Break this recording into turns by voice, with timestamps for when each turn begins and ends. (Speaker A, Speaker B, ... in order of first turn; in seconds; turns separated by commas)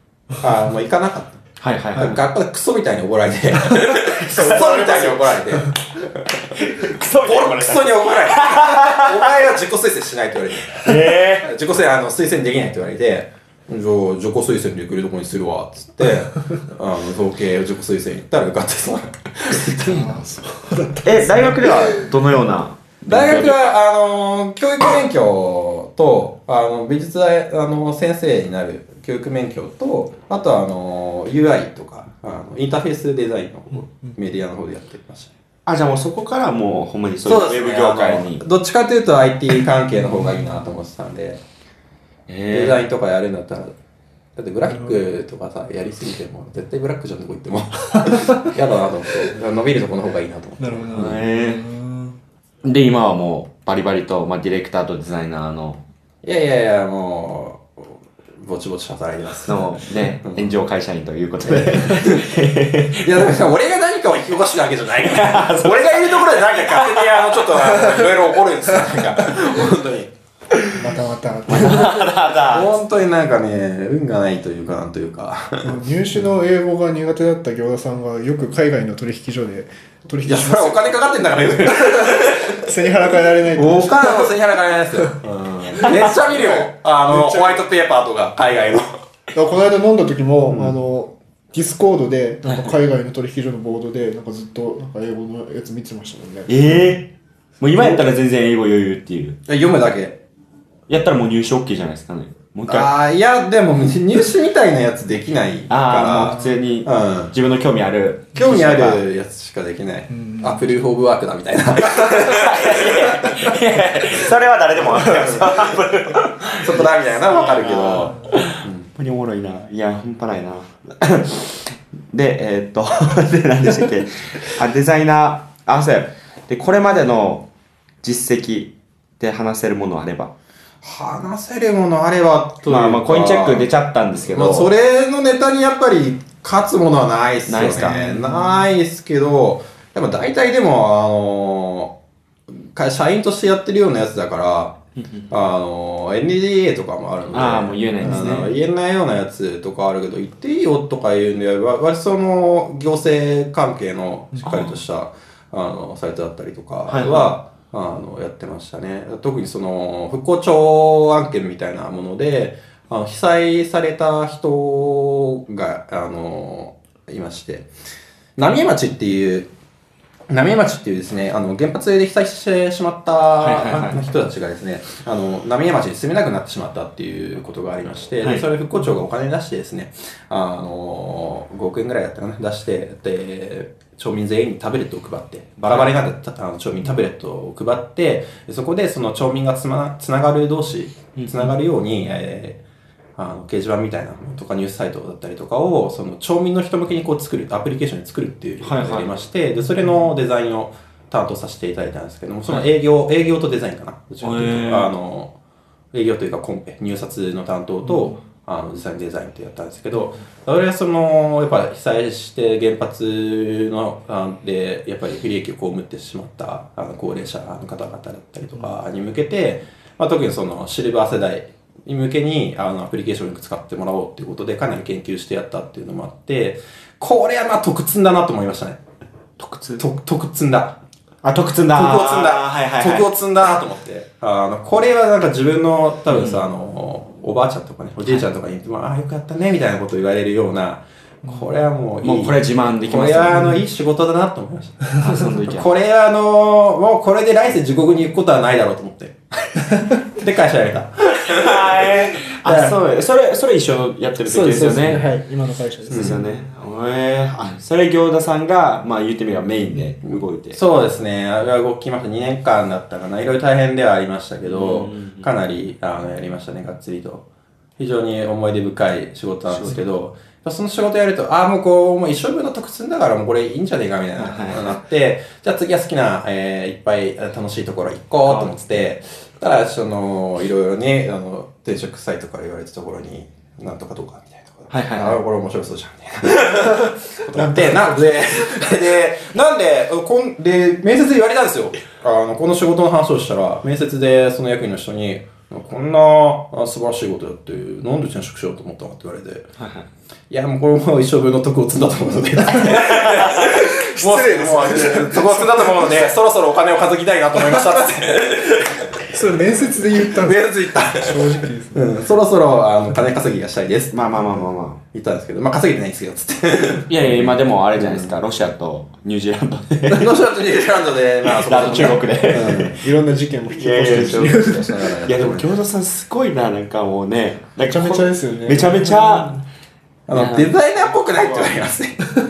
Speaker A: 0.4-6.6, Speaker B: 1.6-2.2, Speaker B: 4.0-5.2, Speaker C: 4.3-5.7, Speaker B: 6.5-9.4, Speaker A: 7.2-20.2, Speaker B: 10.7-11.5, Speaker C: 19.8-22.1, Speaker B: 21.0-23.7, Speaker A: 23.1-35.3, Speaker B: 35.6-38.4, Speaker A: 37.2-41.4, Speaker C: 40.0-40.6, Speaker B: 42.3-42.8, Speaker A: 42.5-43.7, Speaker A: 44.4-51.2, Speaker C: 50.6-52.2, Speaker B: 50.9-51.7, Speaker B: 52.6-55.8, Speaker A: 56.2-59.7, Speaker B: 59.5-63.4, Speaker A: 60.2-60.6, Speaker A: 61.5-62.3, Speaker A: 63.0-70.1, Speaker B: 65.0-67.7, Speaker B: 69.5-69.8, Speaker C: 70.7-72.1, Speaker B: 71.5-72.8, Speaker A: 72.5-75.8, Speaker C: 75.6-80.8, Speaker A: 80.2-82.7, Speaker C: 81.9-84.3, Speaker A: 83.5-88.9, Speaker B: 85.7-86.0, Speaker C: 85.8-87.6, Speaker C: 89.3-97.0, Speaker B: 92.5-92.7, Speaker B: 96.5-99.4, Speaker A: 99.5-100.2, Speaker B: 100.9-102.9, Speaker A: 102.7-107.3, Speaker B: 105.7-109.0, Speaker A: 108.3-113.5, Speaker C: 110.1-110.6, Speaker B: 111.9-127.5, Speaker A: 115.2-115.6, Speaker A: 116.5-118.9, Speaker B: 128.0-130.3, Speaker A: 130.8-133.7, Speaker B: 132.6-134.7, Speaker A: 134.2-141.9, Speaker B: 137.5-138.5, Speaker C: 137.9-138.6, Speaker A: 142.6-144.8, Speaker B: 145.0-145.3, Speaker A: 145.3-167.7, Speaker B: 147.3-148.5, Speaker C: 148.0-148.5, Speaker B: 154.4-154.8, Speaker B: 156.9-157.3, Speaker A: 168.4-169.5, Speaker A: 170.3-192.6, Speaker B: 173.4-174.0, Speaker B: 185.6-186.0, Speaker B: 191.1-191.6, Speaker A: 193.2-205.3, Speaker B: 198.6-199.2, Speaker C: 199.8-200.1, Speaker B: 204.2-204.9, Speaker A: 205.9-228.8, Speaker B: 229.4-229.8, Speaker A: 229.8-230.8, Speaker B: 231.2-233.1, Speaker A: 231.7-251.8, Speaker B: 236.1-236.4, Speaker B: 242.0-243.6, Speaker B: 245.0-245.7, Speaker B: 251.3-255.1, Speaker A: 252.4-252.8, Speaker C: 254.2-256.2, Speaker B: 255.9-260.6, Speaker A: 255.9-256.2, Speaker A: 260.5-267.2, Speaker B: 264.4-265.3, Speaker A: 267.8-299.5, Speaker B: 269.5-269.8, Speaker B: 274.2-274.8, Speaker B: 278.2-278.5, Speaker B: 284.7-285.2, Speaker B: 299.6-299.9, Speaker A: 300.3-309.1, Speaker B: 302.6-303.5, Speaker C: 303.6-305.8, Speaker C: 309.1-312.0, Speaker A: 310.0-314.1, Speaker B: 313.9-314.8, Speaker A: 314.9-318.1, Speaker B: 316.9-320.2, Speaker A: 319.9-322.8, Speaker B: 321.2-322.8, Speaker C: 322.8-324.9, Speaker B: 323.5-329.4, Speaker A: 324.0-325.5, Speaker C: 327.7-329.4, Speaker A: 330.1-332.0, Speaker B: 330.1-330.6